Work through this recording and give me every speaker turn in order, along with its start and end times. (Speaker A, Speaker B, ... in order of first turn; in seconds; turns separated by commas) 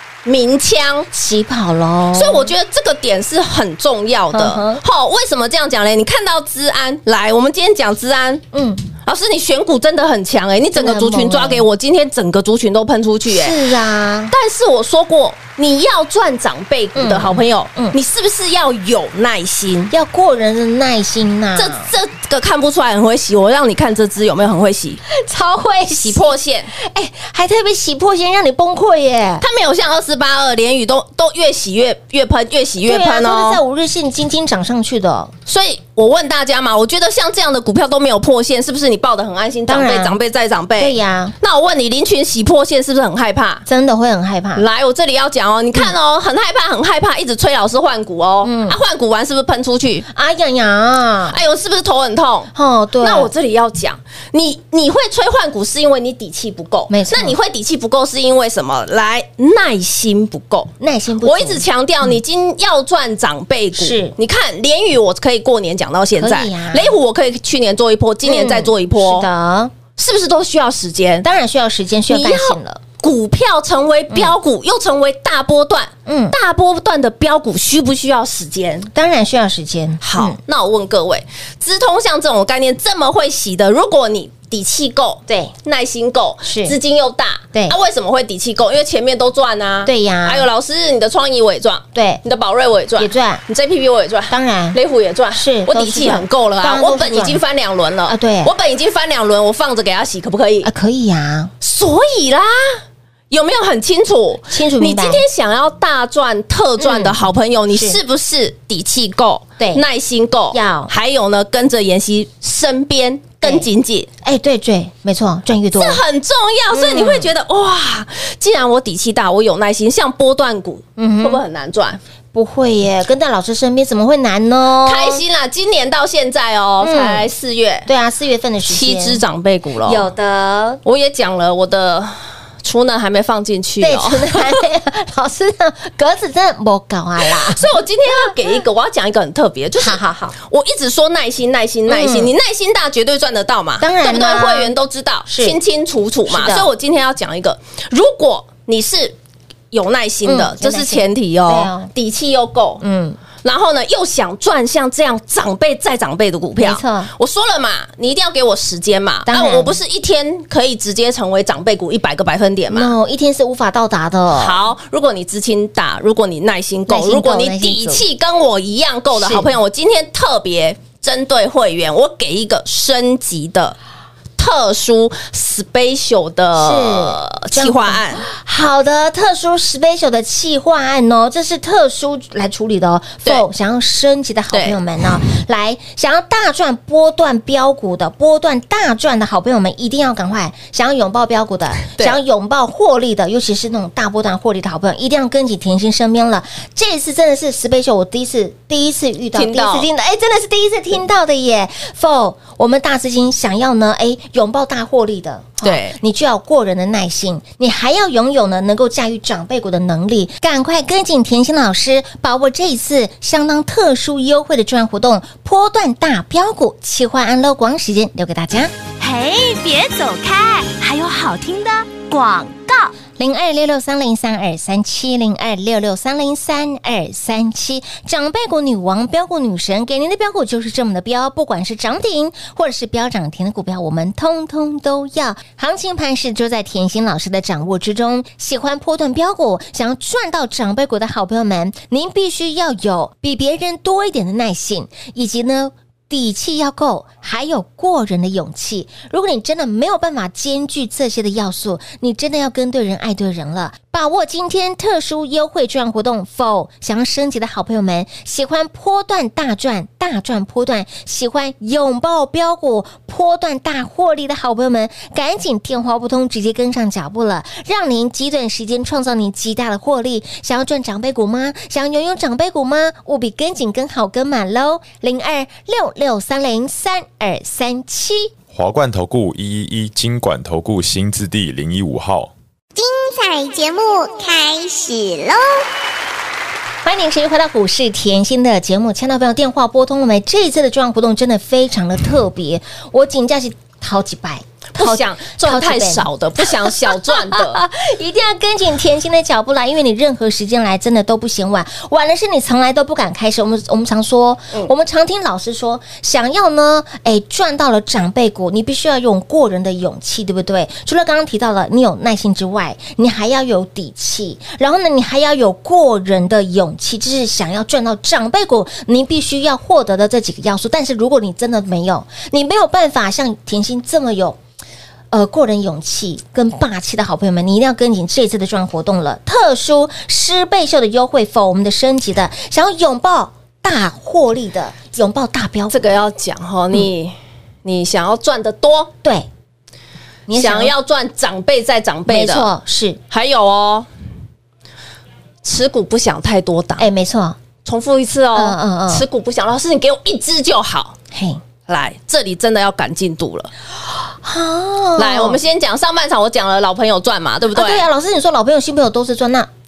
Speaker A: 0.2-1.1, Speaker B: 1.1-2.5, Speaker A: 2.1-8.4, Speaker B: 4.3-4.8, Speaker B: 8.5-8.9, Speaker A: 9.0-13.6, Speaker B: 10.7-11.7, Speaker B: 13.3-14.3, Speaker A: 14.3-19.9, Speaker B: 16.9-17.9, Speaker B: 19.9-21.9, Speaker A: 21.6-25.0, Speaker B: 25.1-29.4, Speaker A: 25.9-26.7, Speaker A: 29.4-33.6, Speaker B: 32.8-35.3, Speaker A: 35.5-43.6, Speaker B: 39.7-40.2, Speaker B: 40.8-41.3, Speaker B: 43.6-44.6, Speaker A: 44.5-50.0, Speaker B: 48.4-48.8, Speaker B: 50.1-51.4, Speaker A: 51.3-60.7, Speaker B: 52.5-53.3, Speaker B: 56.9-57.4, Speaker B: 60.8-62.1, Speaker A: 61.2-69.3, Speaker B: 63.8-64.1, Speaker B: 66.2-67.0, Speaker B: 68.2-69.7, Speaker A: 70.0-71.2, Speaker B: 71.2-72.8, Speaker A: 72.1-78.9, Speaker B: 76.0-76.3, Speaker B: 78.9-80.4, Speaker A: 80.0-100.7, Speaker B: 85.3-85.5, Speaker B: 86.4-86.8, Speaker B: 89.8-90.5, Speaker B: 91.9-92.2, Speaker B: 93.0-93.4, Speaker B: 94.3-94.8, Speaker B: 95.3-97.4, Speaker B: 98.1-98.5, Speaker B: 100.6-101.5, Speaker A: 101.6-114.1, Speaker B: 104.5-105.2, Speaker B: 106.8-107.2, Speaker B: 107.7-108.0, Speaker B: 109.6-109.8, Speaker B: 110.5-110.9, Speaker B: 113.4-113.7, Speaker B: 114.2-116.0, Speaker A: 115.7-122.0, Speaker B: 116.7-117.3, Speaker B: 121.0-121.4, Speaker B: 122.3-125.2, Speaker A: 124.8-127.9, Speaker B: 126.8-127.3, Speaker B: 127.8-129.2, Speaker A: 128.6-130.1, Speaker B: 129.8-130.8, Speaker A: 130.8-134.6, Speaker B: 133.8-138.4, Speaker A: 137.2-149.2, Speaker B: 139.8-140.3, Speaker B: 141.9-142.3, Speaker B: 143.8-144.7, Speaker B: 145.2-145.6, Speaker B: 146.3-146.7, Speaker A: 149.7-152.8, Speaker B: 150.2-151.9, Speaker B: 152.8-153.2, Speaker A: 153.4-162.9, Speaker B: 156.6-157.1, Speaker B: 159.3-159.8, Speaker B: 162.7-164.6, Speaker A: 164.3-173.8, Speaker B: 166.9-168.0, Speaker B: 169.1-169.5, Speaker A: 174.4-178.2, Speaker B: 176.6-218.8, Speaker A: 184.5-184.8, Speaker A: 191.9-192.2, Speaker A: 199.3-199.9, Speaker A: 205.6-206.0, Speaker C: 219.0-222.9, Speaker B: 223.2-278.3, Speaker D: 278.5-282.3, Speaker E: 282.8-285.6, Speaker B: 286.8-324.4, Speaker A: 294.7-297.6, Speaker B: 325.1-335.9, Speaker A: 335.7-338.9, Speaker B: 339.0-339.3, Speaker B: 340.3-340.7, Speaker A: 340.3-342.5, Speaker B: 342.1-343.0, Speaker A: 343.1-343.9, Speaker A: 345.4-346.9, Speaker B: 346.8-347.4, Speaker A: 347.6-350.9, Speaker B: 348.3-349.0, Speaker B: 351.1-351.4, Speaker A: 351.6-353.5, Speaker B: 354.1-355.4, Speaker A: 354.9-357.8, Speaker B: 357.5-359.5